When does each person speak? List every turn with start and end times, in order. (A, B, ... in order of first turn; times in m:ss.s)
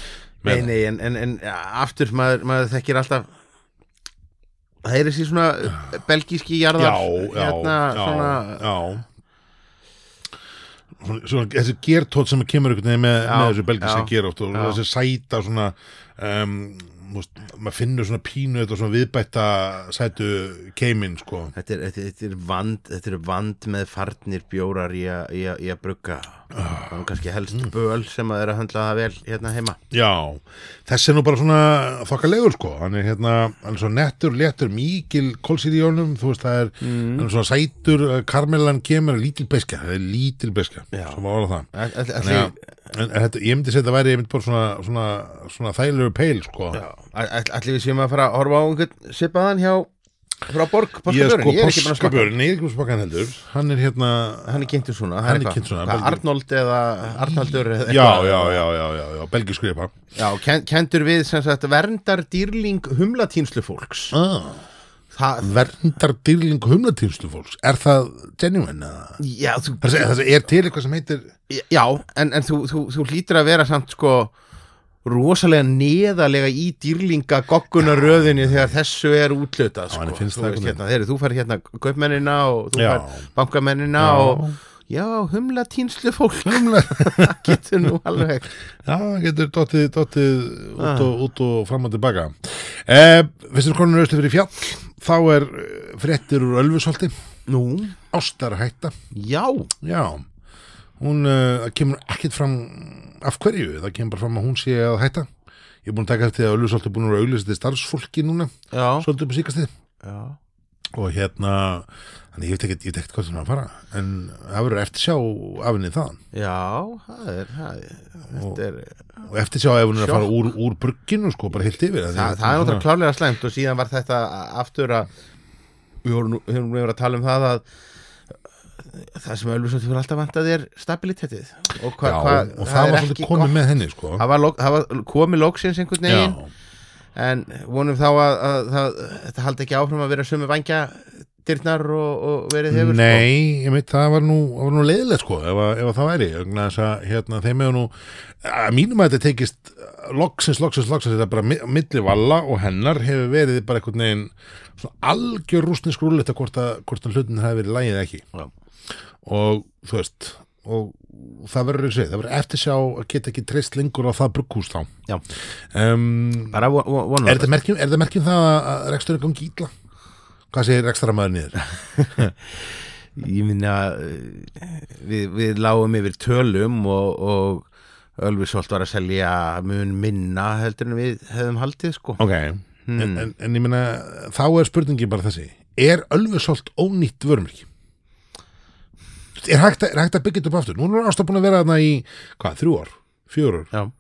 0:00.4-0:00.7 A
0:00.4-0:03.3 B
0:04.8-0:08.6 B
0:06.8-0:09.0 A
0:11.0-0:21.5 A
0:13.2-0:14.8 B
0:21.6-0:29.8 B
0:26.5-0:27.1 A
0:29.9-0:46.8 A
0:36.8-0:37.3 B
0:40.9-0:41.2 B
0:41.7-0:42.6 B
0:46.7-0:49.9 B
0:50.5-0:52.3 B
0:51.1-0:54.7 A
0:54.5-0:58.6 B
0:55.2-0:56.2 A
0:57.1-0:59.9 A
1:00.2-1:04.2 B
1:04.1-1:04.6 A
1:05.1-1:05.6 B
1:05.4-1:09.2 A
1:09.2-1:10.1 B
1:09.8-1:11.3 A
1:11.5-1:14.3 B
1:15.0-1:28.5 B
1:19.9-1:20.8 A
1:22.8-1:23.2 A
1:24.0-1:24.6 A
1:26.4-1:27.6 A
1:28.8-1:37.1 A
1:30.8-1:31.1 B
1:37.5-1:38.0 B
1:38.1-1:38.9 A
1:39.1-1:39.7 B
1:39.8-1:40.2 A
1:41.0-1:45.3 A
1:45.8-1:49.7 A
1:48.7-1:49.1 B
1:50.0-1:50.4 B
1:50.9-1:56.2 A
1:56.3-1:59.1 B
1:58.3-1:58.6 A
1:59.2-2:02.8 A
2:00.0-2:00.3 B
2:02.1-2:05.1 B
2:06.0-2:07.6 B
2:08.9-2:13.6 B
2:12.0-2:14.2 A
2:14.2-2:16.4 B
2:16.1-2:16.5 A
2:17.2-2:23.3 B
2:22.7-2:38.3 A
2:39.2-2:44.9 A
2:45.7-2:46.6 A
2:46.5-2:47.5 B
2:47.2-2:49.7 A
2:50.5-2:51.6 A
2:51.6-2:57.7 B
2:58.2-3:02.2 B
3:02.2-3:07.7 A
3:02.8-3:03.3 B
3:09.4-3:13.7 A